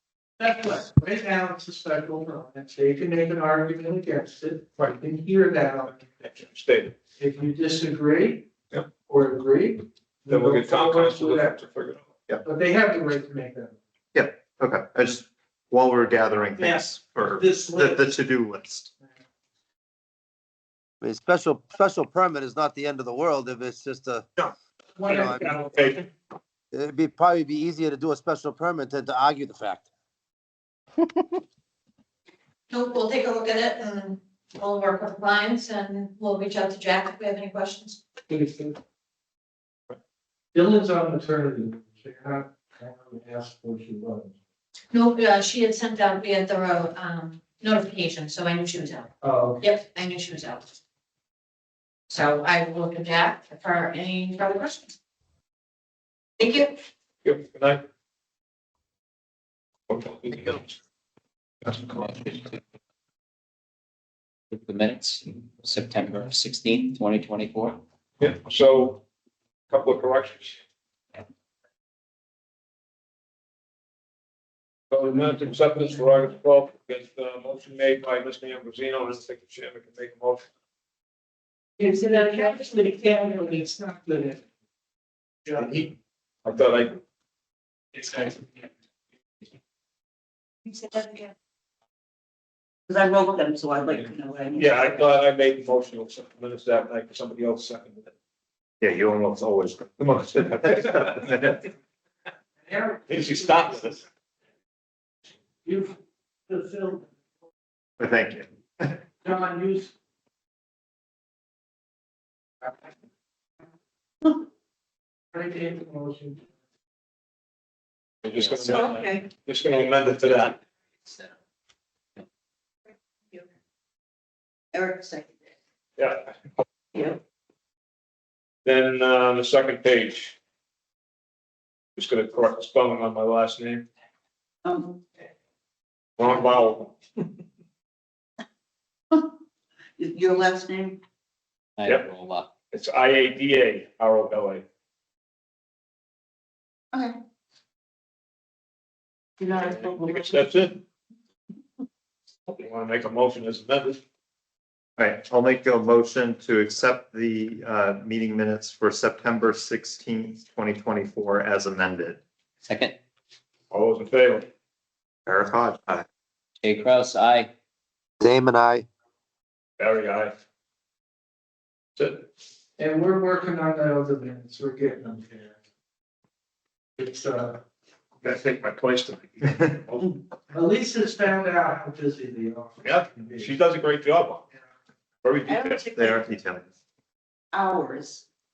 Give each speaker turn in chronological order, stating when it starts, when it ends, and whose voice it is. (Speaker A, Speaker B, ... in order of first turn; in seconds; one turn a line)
Speaker A: 0.4-6.0
Speaker B: 6.2-6.9
Speaker A: 7.2-8.5
Speaker A: 9.1-11.6
Speaker B: 10.3-12.0
Speaker A: 12.4-13.8
Speaker C: 14.1-18.9
Speaker A: 16.6-18.1
Speaker D: 21.0-24.3
Speaker A: 25.0-25.9
Speaker D: 25.1-25.5
Speaker B: 25.1-26.0
Speaker D: 26.7-29.9
Speaker E: 32.7-38.0
Speaker A: 38.3-38.8
Speaker A: 40.5-44.3
Speaker E: 44.9-50.7
Speaker A: 49.2-49.6
Speaker E: 52.1-54.9
Speaker E: 56.4-56.7
Speaker B: 57.2-57.8
Speaker B: 59.9-60.7
Speaker B: 61.6-62.5
Speaker F: 64.5-67.8
Speaker B: 68.2-69.0
Speaker B: 69.7-70.6
Speaker B: 74.9-80.5
Speaker A: 81.8-84.4
Speaker B: 85.6-87.0
Speaker A: 88.0-88.4
Speaker G: 90.6-91.3
Speaker G: 92.9-95.0
Speaker B: 94.5-98.1
Speaker C: 98.8-101.4
Speaker B: 100.5-101.0
Speaker A: 102.6-103.9
Speaker B: 103.1-104.0
Speaker A: 105.6-106.0
Speaker A: 106.5-107.1
Speaker C: 108.0-109.0
Speaker A: 109.2-109.9
Speaker A: 115.3-116.4
Speaker B: 118.2-120.5
Speaker F: 118.3-119.1
Speaker G: 118.7-119.3
Speaker F: 120.1-121.3
Speaker G: 124.7-125.4
Speaker B: 126.0-126.3
Speaker G: 126.9-127.2
Speaker B: 128.6-130.3
Speaker B: 131.9-133.8
Speaker G: 134.6-135.0
Speaker B: 136.2-136.9
Speaker G: 140.0-141.0
Speaker F: 141.8-142.5
Speaker B: 142.7-144.6
Speaker G: 146.9-147.2
Speaker G: 149.4-150.4
Speaker B: 149.6-150.8
Speaker B: 152.5-154.0
Speaker C: 155.0-162.2
Speaker F: 162.6-163.0
Speaker B: 163.7-164.5
Speaker C: 165.2-166.1
Speaker F: 166.6-167.5
Speaker D: 168.2-168.9
Speaker B: 169.8-170.3
Speaker B: 172.0-172.2
Speaker A: 172.8-175.5
Speaker A: 177.0-177.6
Speaker B: 178.2-180.2
Speaker A: 180.5-183.6
Speaker B: 182.8-184.4
Speaker B: 185.2-185.8
Speaker G: 185.5-186.2
Speaker C: 185.9-186.7
Speaker G: 187.5-188.2